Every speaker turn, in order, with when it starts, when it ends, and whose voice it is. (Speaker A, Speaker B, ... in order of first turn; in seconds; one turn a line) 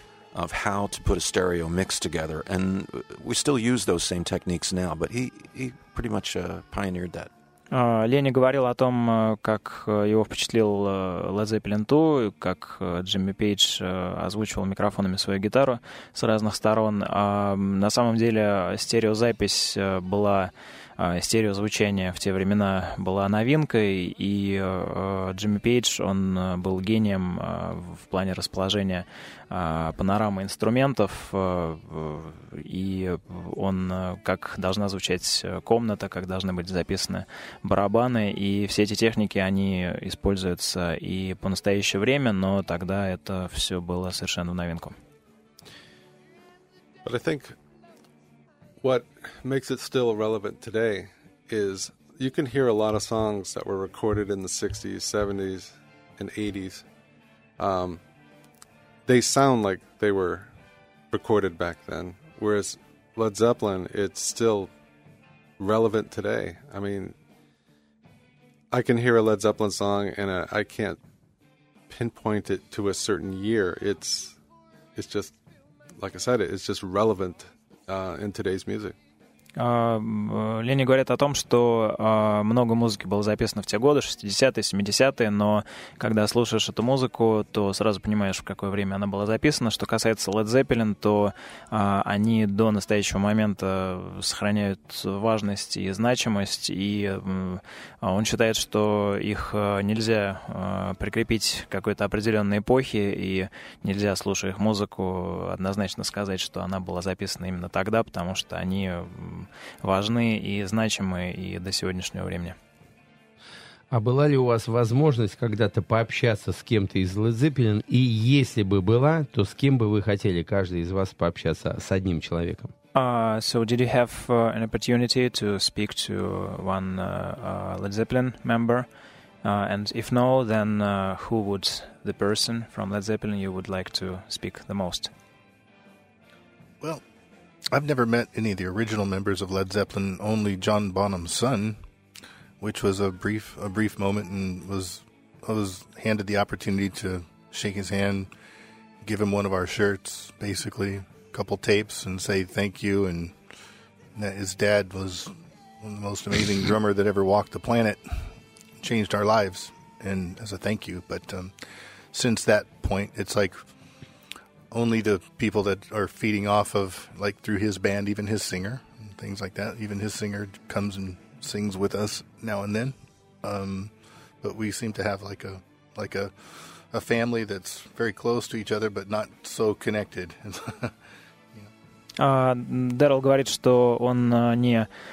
Speaker A: 0.3-7.3
Speaker B: 7.7-44.9
Speaker C: 47.0-47.6
Speaker C: 48.8-56.9
Speaker C: 57.6-58.0
Speaker C: 59.0-60.5
Speaker C: 61.1-64.7
Speaker C: 65.6-67.2
Speaker C: 68.7-71.0
Speaker C: 71.9-74.4
Speaker C: 75.0-75.4
Speaker C: 76.0-79.0
Speaker B: 79.5-112.5
Speaker D: 113.9-122.7
Speaker B: 122.9-128.9
Speaker B: 129.4-135.1
Speaker E: 137.7-141.8
Speaker E: 142.6-148.3
Speaker E: 149.0-153.4
Speaker E: 154.1-158.2
Speaker E: 158.8-161.5
Speaker E: 162.1-163.6
Speaker E: 164.7-180.9
Speaker B: 182.2-184.9